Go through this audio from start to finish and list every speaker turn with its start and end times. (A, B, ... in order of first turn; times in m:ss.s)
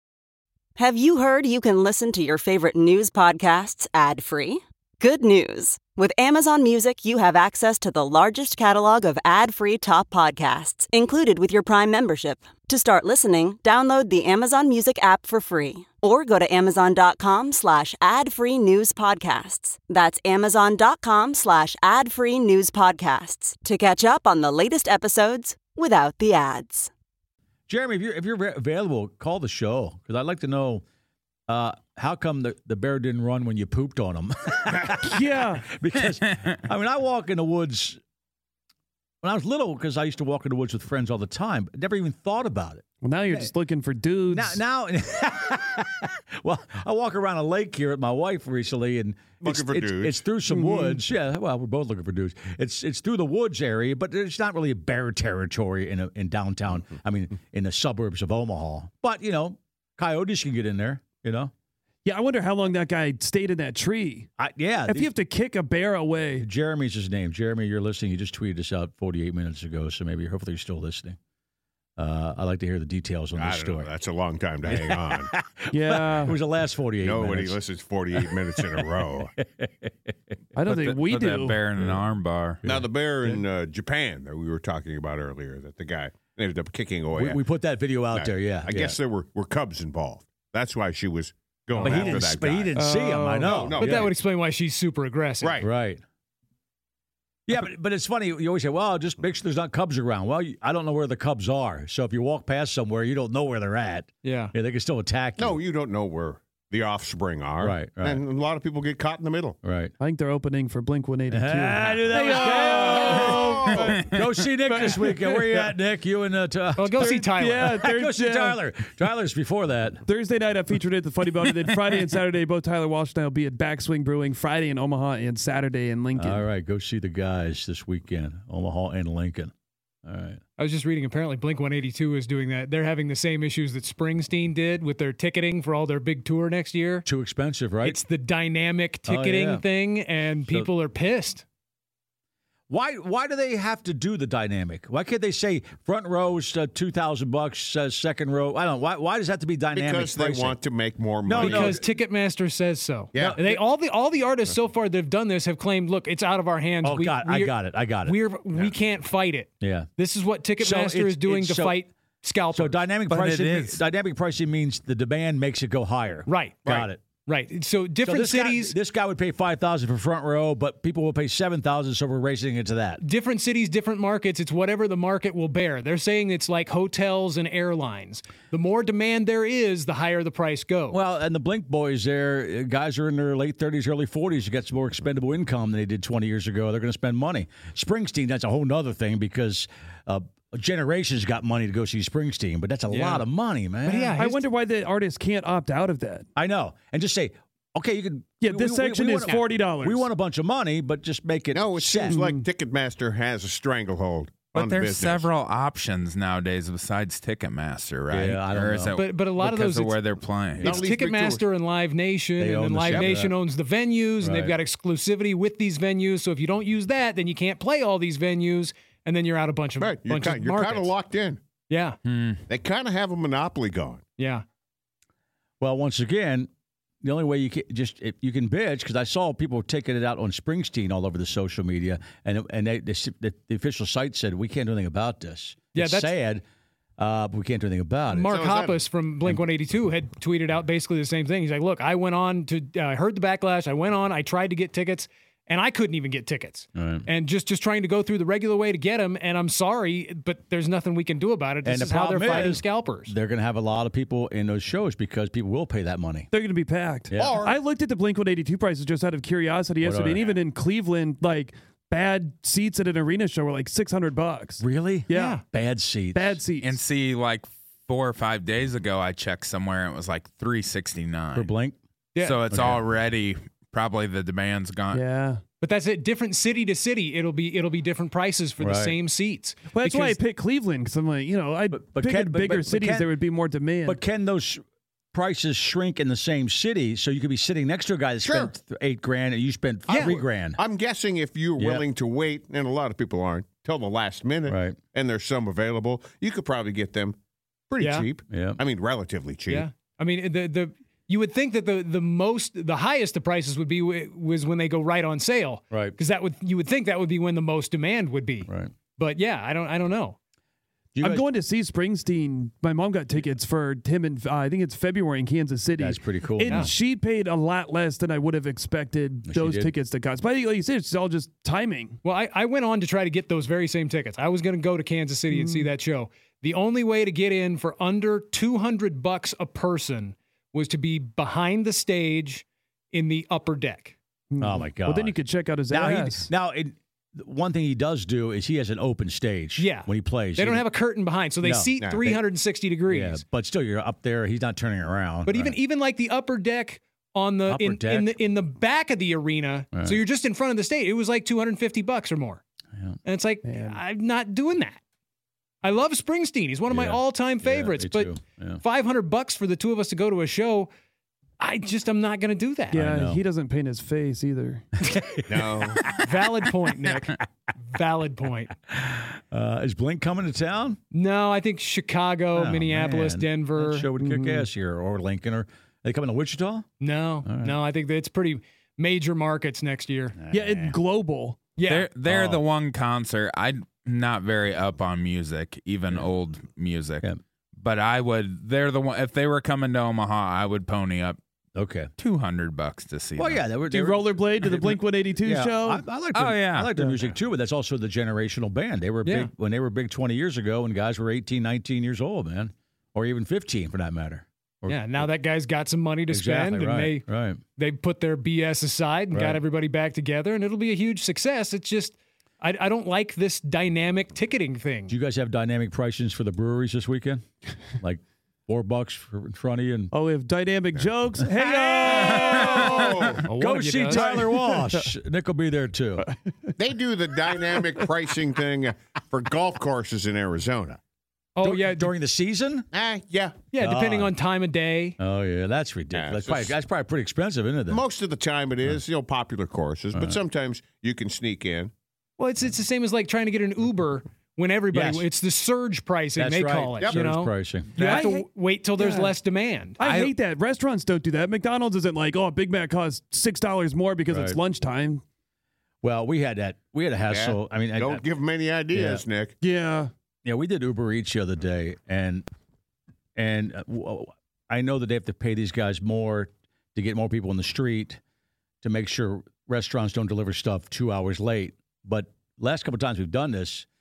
0:00.8-0:26.9 A
0:27.7-0:30.8 B
0:31.5-0:38.0 B
0:35.0-0:35.7 C
0:39.2-0:43.5 B
0:43.0-0:44.6 C
0:44.3-1:01.5 B
0:49.4-0:50.2 D
0:50.5-0:51.0 C
1:02.0-1:04.3 C
1:04.4-1:05.1 B
1:04.9-1:06.5 C
1:06.4-1:11.2 B
1:12.0-1:13.9 B
1:13.4-1:15.3 D
1:14.6-1:17.6 B
1:15.7-1:16.4 C
1:17.0-1:19.3 D
1:18.1-1:20.2 B
1:20.5-1:21.6 C
1:20.6-1:22.6 E
1:22.6-1:27.4 D
1:27.1-1:29.0 B
1:28.1-1:32.8 D
1:31.8-1:34.1 B
1:32.7-1:33.7 C
1:33.4-1:34.1 D
1:33.8-1:35.6 F
1:35.4-1:35.7 D
1:35.6-1:36.0 B
1:37.5-1:45.6 B
1:44.2-1:44.5 F
1:45.4-1:49.6 D
1:47.6-1:48.2 B
1:49.6-1:49.9 B
1:50.0-1:54.1 C
1:51.3-2:00.0 B
1:52.4-1:54.0 D
1:54.6-1:55.7 C
1:56.8-1:57.8 F
1:57.0-1:58.6 C
2:00.0-2:06.4 C
2:06.1-2:09.5 B
2:10.0-2:10.4 B
2:10.6-2:17.0 F
2:17.0-2:18.0 B
2:17.8-2:21.4 F
2:19.0-2:19.6 B
2:22.7-2:30.6 B
2:29.7-2:31.8 D
2:31.2-2:31.8 B
2:31.4-2:42.8 F
2:33.1-2:33.6 D
2:33.2-2:33.5 B
2:36.8-2:38.2 B
2:39.6-2:39.9 B
2:40.6-2:41.8 B
2:42.5-2:47.0 B
2:46.3-2:46.6 F
2:46.6-2:46.9 D
2:47.1-2:48.8 F
2:48.0-2:53.0 B
2:53.0-3:01.0 F
3:00.9-3:14.2 B
3:12.9-3:13.3 F
3:13.8-3:14.4 F
3:14.1-3:16.3 C
3:16.4-3:22.2 B
3:18.4-3:20.1 C
3:21.5-3:25.3 D
3:22.1-3:22.5 C
3:24.5-3:30.8 E
3:28.1-3:29.0 B
3:29.0-3:30.0 F
3:30.6-3:31.4 D
3:30.6-3:40.9 F
3:32.4-3:33.4 B
3:34.2-3:34.6 B
3:39.8-3:41.4 D
3:41.7-3:42.0 F
3:42.0-3:42.4 E
3:42.5-3:44.0 D
3:44.2-3:44.4 F
3:45.6-3:46.5 B
3:47.0-3:56.4 B
3:55.7-3:56.1 F
3:57.0-3:58.4 B
3:58.1-4:13.1 F
3:58.2-3:58.8 D
4:06.7-4:07.1 B
4:11.6-4:16.3 B
4:16.3-4:25.4 C
4:17.1-4:17.4 B
4:17.2-4:17.6 D
4:19.8-4:20.3 B
4:24.6-4:26.4 B
4:25.1-4:25.4 F
4:26.1-4:26.8 C
4:26.6-4:31.5 E
4:31.3-4:31.8 B
4:32.2-4:35.0 E
4:32.5-4:32.8 B
4:34.9-4:35.4 C
4:35.6-4:40.2 F
4:38.6-4:38.9 B
4:39.7-4:44.0 C
4:41.7-4:43.1 B
4:43.8-4:50.6 B
4:48.2-4:48.5 D
4:49.9-4:50.2 F
4:50.6-4:57.2 D
4:51.6-4:51.8 B
4:54.5-4:54.8 B
4:57.7-4:59.7 D
4:57.8-4:58.1 F
4:58.3-4:58.6 B
4:59.5-5:10.2 F
5:05.7-5:06.0 B
5:08.5-5:08.7 B
5:10.9-5:11.2 B
5:11.0-5:22.0 C
5:15.8-5:16.7 B
5:16.5-5:16.7 F
5:19.2-5:19.7 B
5:22.0-5:34.0 F
5:25.3-5:25.7 C
5:34.3-5:36.3 C
5:34.4-5:35.2 B
5:35.7-5:40.6 B
5:39.6-5:43.2 F
5:41.4-5:42.1 B
5:41.8-5:42.2 D
5:42.9-5:45.6 B
5:45.2-5:52.4 F
5:47.5-5:48.2 B
5:49.7-5:50.0 B
5:53.0-5:54.8 F
5:53.4-5:53.8 C
5:55.6-6:00.7 F
5:56.7-5:58.6 B
6:01.4-6:02.8 F
6:02.7-6:03.2 B
6:02.7-6:04.7 C
6:04.8-6:06.0 B
6:05.3-6:05.9 D
6:05.9-6:08.5 F
6:08.7-6:10.8 B
6:10.9-6:13.9 F
6:12.3-6:16.7 B
6:14.0-6:14.5 C
6:16.8-6:20.2 F
6:17.2-6:17.6 B
6:20.2-6:20.8 B
6:20.3-6:21.4 C
6:21.6-6:21.9 F
6:21.6-6:31.2 E
6:22.0-6:22.4 B
6:31.5-6:31.9 B
6:32.0-6:33.4 E
6:33.2-6:45.1 B
6:33.6-6:35.8 C
6:36.1-6:36.7 E
6:39.0-6:39.3 F
6:44.7-6:54.9 F
6:46.1-6:47.4 B
6:49.1-6:49.4 B
6:54.9-6:59.9 B
6:59.9-7:03.2 C
7:01.3-7:06.1 B
7:02.1-7:02.8 E
7:02.5-7:03.2 D
7:03.2-7:04.3 F
7:04.2-7:04.9 C
7:06.0-7:06.5 C
7:06.6-7:10.8 D
7:11.4-7:11.9 F
7:11.4-7:12.7 B
7:12.7-7:13.4 D
7:13.5-7:15.0 F
7:13.5-7:14.1 B
7:15.0-7:17.8 B
7:15.9-7:16.5 D
7:17.7-7:21.7 D
7:19.9-7:20.2 B
7:22.2-7:30.1 F
7:24.7-7:25.1 B
7:26.2-7:28.0 B
7:27.7-7:29.1 C
7:29.8-7:35.0 C
7:34.1-7:34.4 B
7:35.8-7:38.0 B
7:37.1-7:39.4 D
7:38.7-7:39.0 B
7:39.4-7:39.9 C
7:40.2-7:42.2 B
7:43.2-7:48.0 B
7:48.6-7:53.7 B